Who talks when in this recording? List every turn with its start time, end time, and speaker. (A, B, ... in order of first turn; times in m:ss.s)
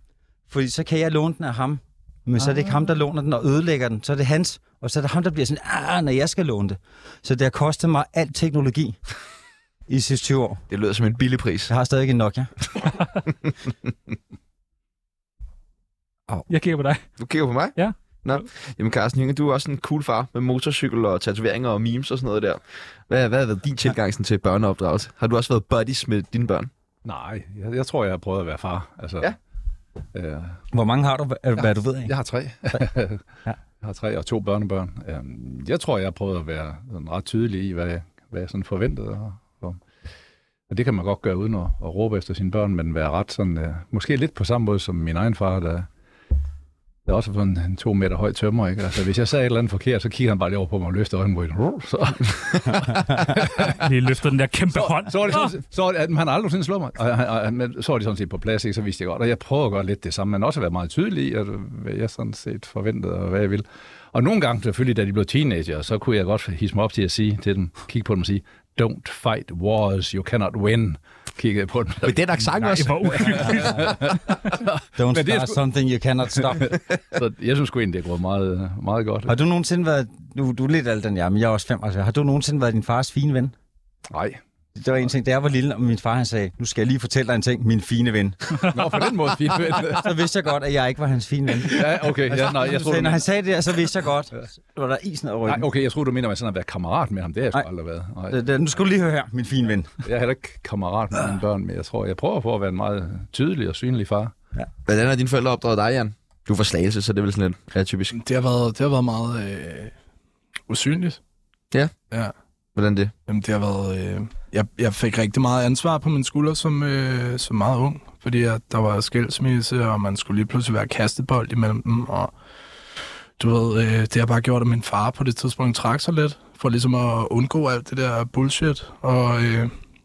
0:00.5-0:09.0 A
0:09.9-0:10.6 A
0:10.7-0:11.7 B
0:11.7-0:12.5 A
0:16.5-0:17.0 C
0:17.2-0:26.7 B
0:17.8-0:18.4 C
0:27.0-0:29.3 D
0:30.1-0:30.6 D
0:30.7-0:32.1 A
0:31.6-0:33.2 D
0:33.8-0:39.8 D
0:40.7-0:45.9 D
0:47.0-0:53.8 D
0:53.7-0:55.5 C
0:54.7-1:12.2 D
1:12.0-1:14.4 B
1:12.6-1:13.9 C
1:13.4-1:15.6 D
1:15.0-1:16.8 A
1:16.6-1:19.3 D
1:19.3-1:23.5 A
1:24.1-1:24.4 D
1:24.7-1:28.7 A
1:28.6-1:30.1 D
1:30.0-1:35.6 A
1:31.7-1:33.2 D
1:35.5-1:38.4 D
1:38.3-1:39.9 A
1:40.0-1:44.3 D
1:44.8-1:48.2 B
1:48.1-1:49.9 E
1:50.7-1:51.2 E
1:52.8-1:53.1 B
1:53.3-2:02.3 E
2:03.4-2:09.7 E